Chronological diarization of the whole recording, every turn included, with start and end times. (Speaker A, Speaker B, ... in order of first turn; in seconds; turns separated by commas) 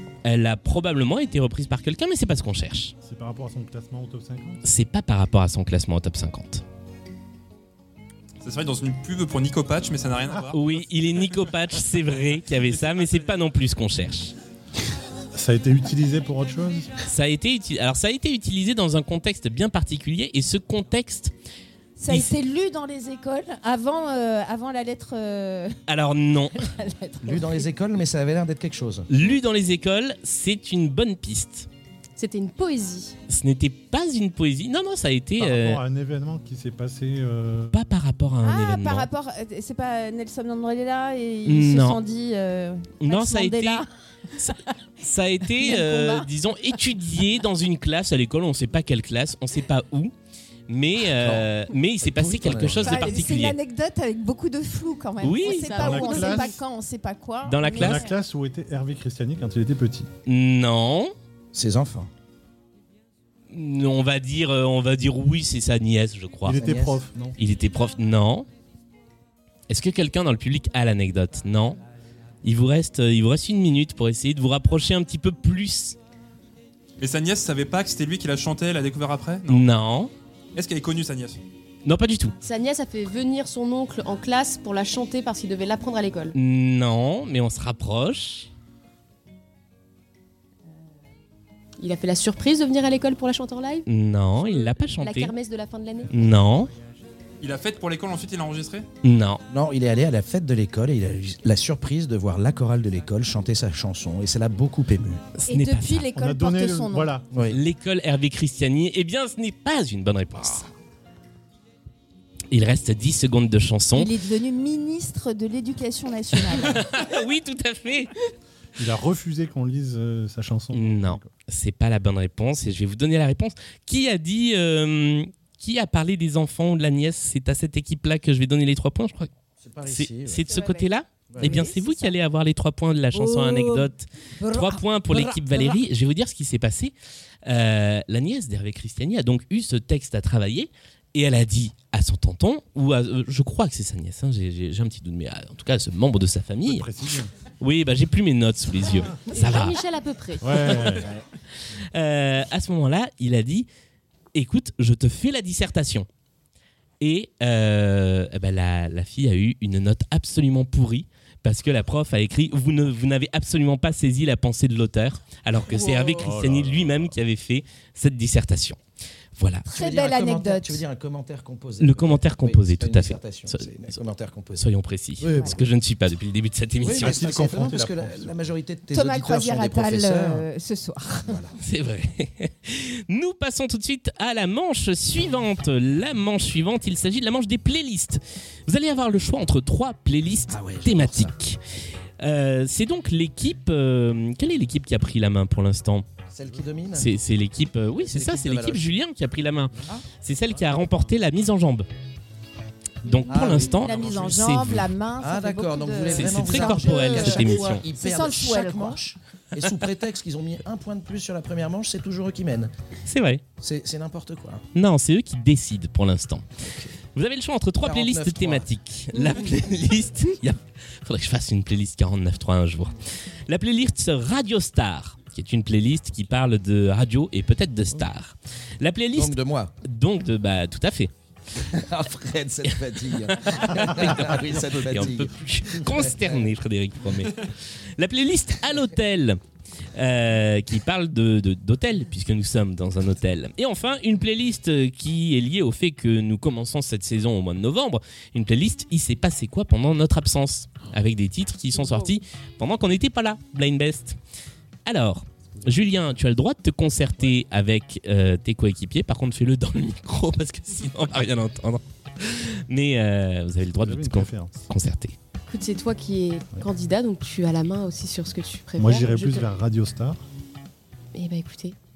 Speaker A: 0.2-2.9, Speaker B: 3.0-4.6, Speaker A: 4.6-6.6, Speaker C: 8.4-10.6, Speaker A: 10.5-14.3, Speaker B: 15.3-16.9, Speaker A: 17.0-21.3, Speaker D: 22.0-25.8, Speaker A: 25.9-26.6, Speaker D: 26.5-27.6, Speaker E: 27.2-29.1, Speaker A: 29.1-31.7, Speaker F: 32.2-33.1, Speaker A: 33.3-35.8, Speaker B: 35.4-37.9, Speaker A: 37.7-39.1, Speaker D: 38.4-43.9, Speaker A: 41.5-42.0, Speaker A: 43.0-43.8, Speaker A: 44.4-50.1, Speaker D: 45.6-46.3, Speaker A: 50.7-53.6, Speaker E: 51.0-53.2, Speaker D: 52.8-58.2, Speaker A: 55.2-56.1, Speaker B: 55.6-56.6, Speaker F: 55.7-56.3, Speaker A: 57.4-58.0, Speaker B: 57.7-60.1, Speaker A: 60.2-61.1, Speaker E: 61.5-62.1, Speaker A: 63.5-66.6, Speaker B: 66.4-67.4, Speaker E: 66.5-67.0, Speaker A: 67.4-68.5, Speaker A: 69.7-71.8, Speaker A: 72.4-76.0, Speaker C: 77.0-79.7, Speaker A: 79.5-80.1, Speaker C: 80.5-81.4, Speaker A: 81.8-82.3, Speaker F: 82.4-86.3, Speaker A: 86.3-88.5, Speaker F: 91.8-93.8, Speaker A: 93.8-95.3, Speaker F: 95.0-96.1, Speaker A: 96.1-96.7, Speaker C: 97.4-98.9, Speaker A: 99.0-99.4, Speaker E: 99.5-105.2, Speaker A: 105.4-106.1, Speaker D: 105.4-107.1, Speaker B: 106.1-107.3, Speaker E: 107.3-107.6, Speaker A: 107.5-110.7, Speaker A: 112.5-114.1, Speaker D: 113.9-116.9, Speaker A: 116.5-118.1, Speaker B: 118.8-121.3, Speaker A: 120.7-129.3, Speaker E: 129.6-130.4, Speaker A: 129.8-136.9, Speaker D: 130.4-132.1, Speaker E: 131.3-131.6, Speaker D: 133.1-135.8, Speaker A: 137.4-146.9, Speaker B: 146.7-147.3, Speaker A: 147.6-149.8, Speaker F: 149.3-151.1, Speaker B: 150.4-151.2, Speaker A: 151.9-153.7, Speaker A: 154.3-156.1, Speaker A: 157.0-168.8, Speaker D: 165.7-166.1, Speaker B: 166.1-167.2, Speaker A: 169.3-169.7, Speaker D: 169.7-170.8, Speaker E: 169.7-174.7, Speaker A: 171.8-173.7, Speaker A: 174.6-177.2, Speaker E: 175.2-175.7, Speaker E: 176.8-180.4, Speaker B: 176.9-178.3, Speaker D: 178.9-181.3, Speaker E: 181.2-181.6, Speaker A: 181.6-191.6, Speaker E: 190.5-191.3, Speaker A: 192.2-196.0, Speaker E: 196.3-197.1, Speaker A: 196.9-201.9, Speaker E: 198.0-198.8, Speaker B: 200.6-201.1, Speaker A: 203.0-204.9, Speaker E: 203.3-204.6, Speaker D: 203.7-209.0, Speaker E: 205.2-212.7, Speaker A: 206.1-207.8, Speaker A: 213.1-213.4, Speaker E: 213.6-214.6, Speaker A: 214.7-216.4, Speaker E: 216.6-216.9, Speaker A: 217.1-222.9, Speaker E: 217.8-218.7, Speaker A: 223.5-231.1, Speaker E: 229.1-229.7, Speaker E: 231.6-236.5, Speaker A: 233.5-239.4, Speaker A: 239.9-254.2, Speaker A: 254.8-265.1, Speaker B: 263.8-264.6, Speaker F: 265.5-269.5, Speaker B: 268.8-270.2, Speaker F: 271.1-271.8